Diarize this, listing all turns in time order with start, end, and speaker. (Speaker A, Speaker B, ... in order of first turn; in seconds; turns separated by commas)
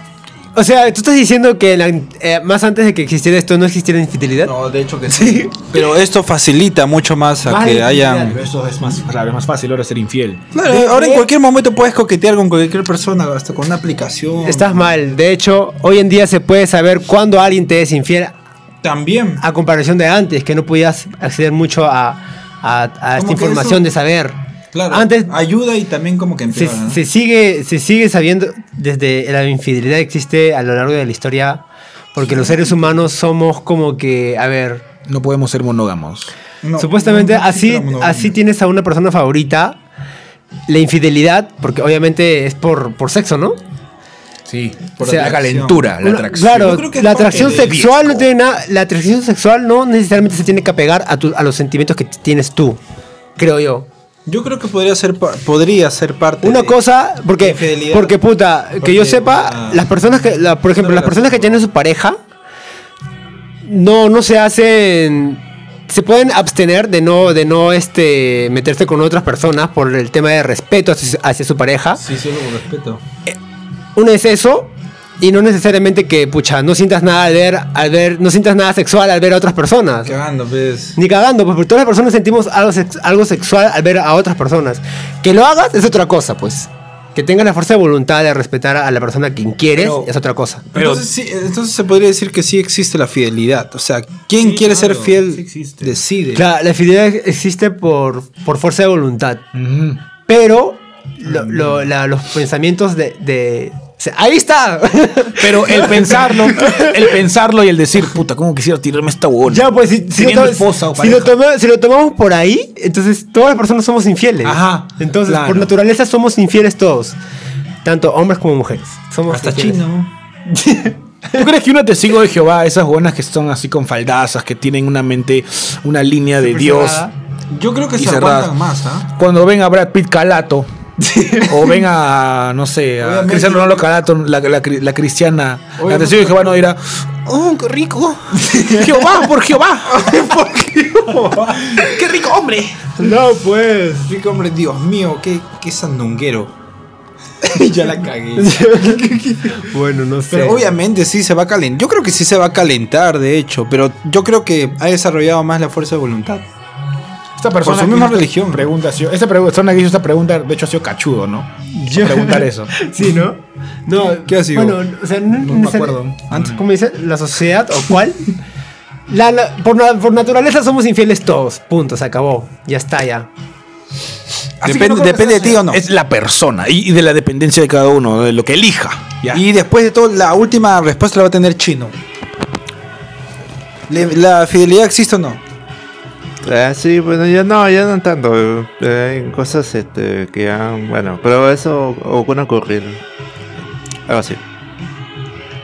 Speaker A: 0.5-4.5, Speaker B: 4.4-8.4, Speaker A: 5.1-5.7, Speaker A: 7.5-8.4, Speaker C: 8.3-10.4, Speaker B: 10.5-15.0, Speaker A: 10.6-11.3, Speaker A: 14.4-18.3, Speaker B: 18.8-19.4, Speaker A: 19.4-24.4, Speaker B: 23.1-23.9, Speaker B: 24.7-27.0, Speaker A: 24.9-25.3, Speaker A: 26.5-34.8, Speaker C: 35.1-36.3, Speaker B: 36.6-38.4, Speaker A: 36.8-39.8, Speaker A: 40.7-43.6, Speaker C: 44.5-48.3, Speaker A: 45.0-45.3, Speaker B: 45.0-45.9, Speaker A: 46.0-52.8, Speaker B: 46.5-47.7, Speaker A: 53.4-53.9, Speaker B: 54.2-56.8, Speaker A: 56.4-62.2, Speaker B: 57.4-58.2, Speaker B: 58.8-59.9, Speaker B: 60.7-61.6, Speaker A: 63.6-72.0, Speaker B: 72.0-73.0, Speaker A: 73.9-80.2, Speaker B: 80.0-81.0, Speaker A: 81.0-90.6, Speaker C: 89.8-90.1, Speaker C: 90.7-91.0, Speaker B: 90.7-96.4, Speaker C: 94.4-96.0, Speaker A: 96.3-99.4, Speaker C: 99.5-100.0, Speaker A: 100.3-107.0, Speaker B: 101.3-101.7, Speaker C: 105.4-111.3, Speaker A: 109.5-117.2, Speaker C: 114.4-115.7, Speaker A: 117.8-119.8, Speaker B: 119.3-120.1, Speaker A: 120.5-121.4, Speaker C: 121.3-127.0, Speaker A: 126.4-127.1, Speaker B: 127.5-129.1, Speaker C: 128.0-128.5, Speaker C: 129.1-130.7, Speaker A: 131.0-131.7, Speaker C: 131.3-140.3, Speaker B: 133.0-133.9, Speaker B: 135.8-136.6, Speaker A: 138.4-139.1, Speaker B: 139.9-141.9, Speaker C: 141.5-143.0, Speaker A: 143.0-144.1, Speaker B: 144.0-146.5, Speaker B: 147.4-149.6, Speaker A: 148.4-150.7, Speaker B: 150.3-156.4, Speaker C: 157.4-162.7, Speaker B: 157.6-158.7, Speaker A: 161.7-168.3, Speaker B: 164.1-164.8, Speaker C: 165.4-166.6, Speaker A: 169.1-173.3, Speaker C: 174.6-179.4, Speaker B: 174.6-175.8, Speaker B: 179.3-181.9, Speaker B: 183.9-185.4, Speaker D: 186.4-193.0, Speaker D: 194.1-194.4